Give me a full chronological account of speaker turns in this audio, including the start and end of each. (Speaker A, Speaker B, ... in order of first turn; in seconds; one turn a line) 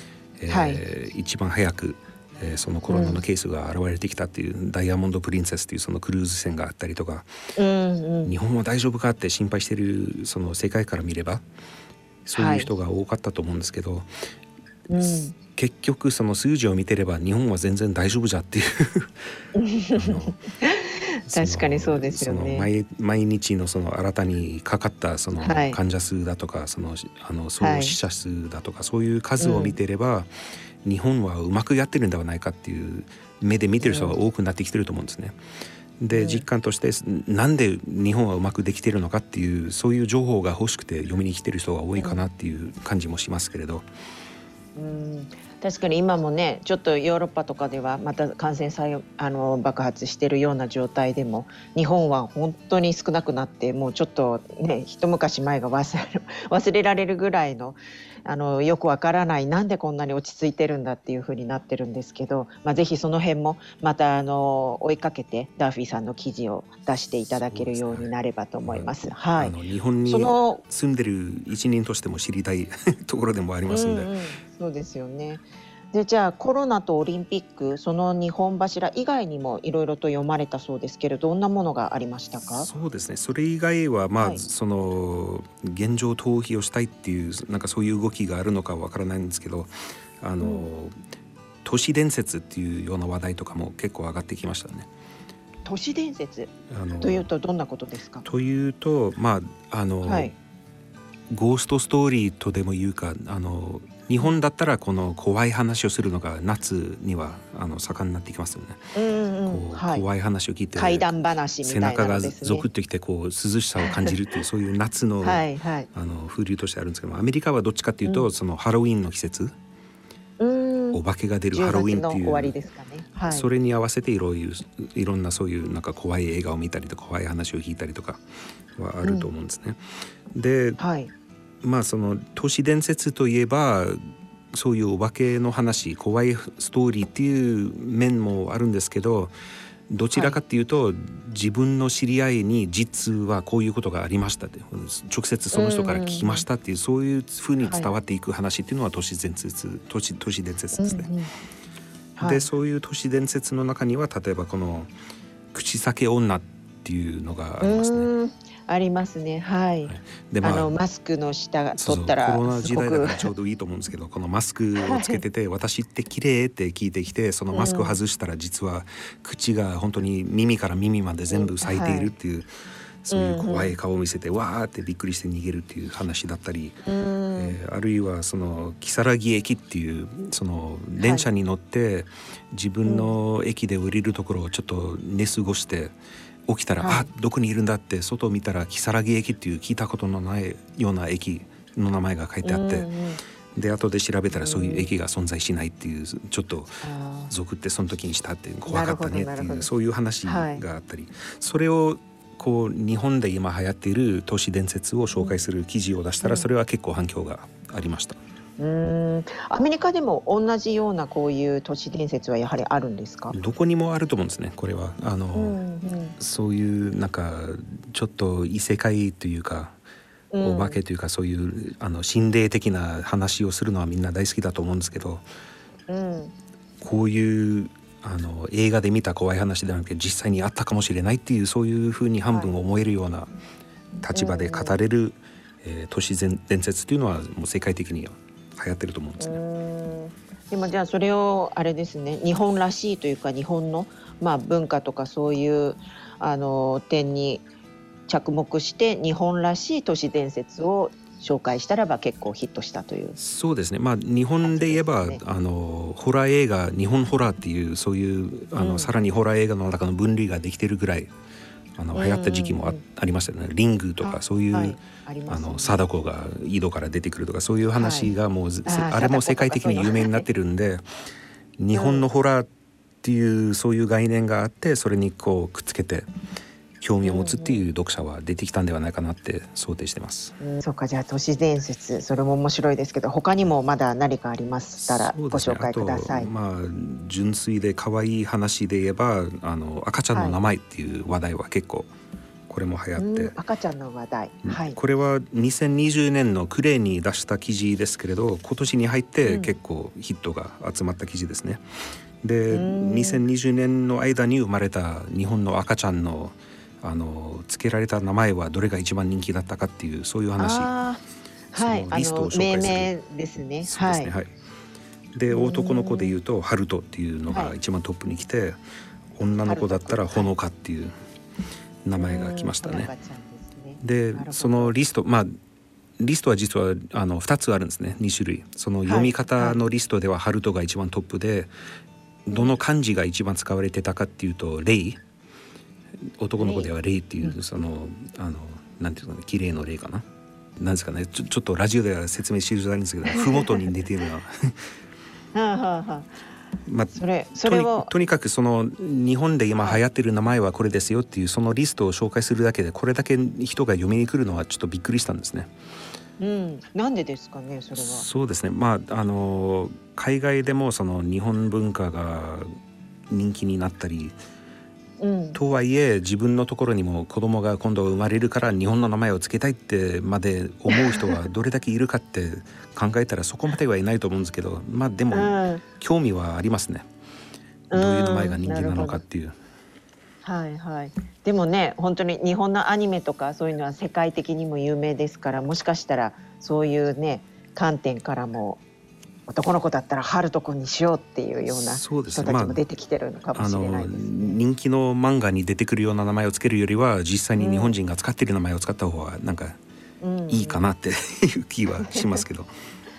Speaker A: 0.4-7.3
Speaker B: 0.5-0.8
Speaker B: 2.9-3.2
Speaker B: 7.5-8.3
Speaker A: 8.2-11.4
Speaker A: 12.2-14.1
Speaker B: 12.3-12.7
Speaker B: 14.9-15.3
Speaker A: 15.1-19.3
Speaker B: 19.5-22.7
Speaker A: 19.9-20.4
Speaker A: 21.3-30.3
Speaker B: 25.4-25.8
Speaker B: 27.6-27.9
Speaker B: 29.4-29.8
Speaker A: 30.8-35.4
Speaker B: 33.8-34.1
Speaker A: 36.0-43.9
Speaker B: 36.1-36.4
Speaker B: 44.7-70.6
Speaker A: 67.3-68.1
Speaker A: 68.7-74.1
Speaker B: 73.7-82.7
Speaker A: 82.5-90.9
Speaker B: 84.2-84.4
Speaker B: 90.4-90.7
Speaker A: 91.6-94.9
Speaker B: 95.6-98.2
Speaker A: 96.7-97.3
Speaker A: 98.2-100.3
Speaker B: 100.0-100.3
Speaker A: 101.3-108.8
Speaker B: 108.9-110.0
Speaker A: 109.5-111.1
Speaker B: 110.8-112.7
Speaker A: 111.6-119.5
Speaker B: 113.8-114.2
Speaker B: 115.2-115.9
Speaker B: 118.0-118.3
Speaker B: 120.4-121.0
Speaker A: 120.9-122.5
Speaker B: 121.5-123.5
Speaker A: 123.3-128.2
Speaker A: 128.8-130.8
Speaker B: 129.0-129.3
Speaker B: 130.8-131.1
Speaker A: 131.6-134.0
Speaker A: 134.5-139.3
Speaker A: 139.9-151.1
Speaker B: 145.5-146.4
Speaker B: 147.7-147.9
Speaker B: 150.8-151.3
Speaker B: 152.2-152.4
Speaker A: 152.2-154.9
Speaker A: 155.5-158.1
Speaker B: 157.6-163.3
Speaker A: 159.9-160.7
Speaker A: 161.8-172.5
Speaker B: 164.8-165.2
Speaker B: 167.5-168.0
Speaker B: 171.3-172.1
Speaker A: 173.0-176.8
Speaker B: 173.1-173.8
Speaker B: 176.8-177.6
Speaker A: 177.3-192.9
Speaker B: 181.0-181.2
Speaker B: 182.8-183.1
Speaker B: 186.8-187.1
Speaker B: 192.4-193.2
Speaker A: 193.5-208.2
Speaker B: 194.3-194.9
Speaker B: 196.8-197.3
Speaker B: 198.7-199.7
Speaker B: 200.2-200.6
Speaker B: 206.2-206.5
Speaker B: 208.6-213.3
Speaker A: 213.3-215.6
Speaker B: 215.3-216.2
Speaker A: 216.2-219.8
Speaker B: 220.3-220.8
Speaker A: 220.4-225.2
Speaker B: 225.9-226.3
Speaker A: 226.8-233.3
Speaker A: 234.0-239.4
Speaker B: 234.1-234.8
Speaker B: 239.2-247.4
Speaker B: 248.1-253.2
Speaker A: 253.2-261.1
Speaker B: 254.4-255.2
Speaker B: 258.6-258.9
Speaker A: 261.8-270.9
Speaker B: 261.9-262.8
Speaker B: 264.0-265.9
Speaker B: 267.8-268.1
Speaker B: 268.6-270.2
Speaker A: 271.6-272.5
Speaker B: 271.7-272.0
Speaker A: 273.0-276.1
Speaker A: 276.8-280.4
Speaker B: 277.0-277.6
Speaker B: 280.4-286.3
Speaker A: 284.8-291.9
Speaker B: 290.1-290.4
Speaker A: 292.5-293.4
Speaker B: 293.0-294.8
Speaker A: 294.4-301.6
Speaker B: 299.2-299.6
Speaker A: 302.2-310.7
Speaker B: 302.5-303.2
Speaker B: 310.4-311.0
Speaker B: 311.5-314.1
Speaker A: 311.5-312.9
Speaker A: 313.6-314.3
Speaker A: 315.1-318.6
Speaker B: 315.3-316.2
Speaker B: 317.3-317.5
Speaker A: 319.1-320.9
Speaker B: 319.4-320.3
Speaker A: 321.8-322.9
Speaker B: 321.9-324.8
Speaker A: 323.8-325.4
Speaker A: 326.0-331.5
Speaker B: 328.9-329.6
Speaker A: 332.2-335.0
Speaker A: 336.0-340.0
Speaker B: 336.4-337.4
Speaker A: 340.6-344.7
Speaker B: 343.1-343.7
Speaker B: 345.3-346.1
Speaker A: 346.6-355.5
Speaker B: 346.9-347.9
Speaker B: 356.2-358.1
Speaker A: 357.8-362.5
Speaker A: 363.1-364.1
Speaker B: 365.0-365.4
Speaker A: 365.4-376.9
Speaker B: 370.7-371.1
Speaker B: 375.1-375.6
Speaker B: 377.7-379.0
Speaker A: 377.7-379.4
Speaker B: 380.2-388.6
Speaker B: 389.3-394.4
Speaker A: 391.5-392.6
Speaker A: 393.4-399.6
Speaker B: 397.4-397.8
Speaker B: 400.0-400.6
Speaker A: 400.3-402.5
Speaker B: 401.9-402.2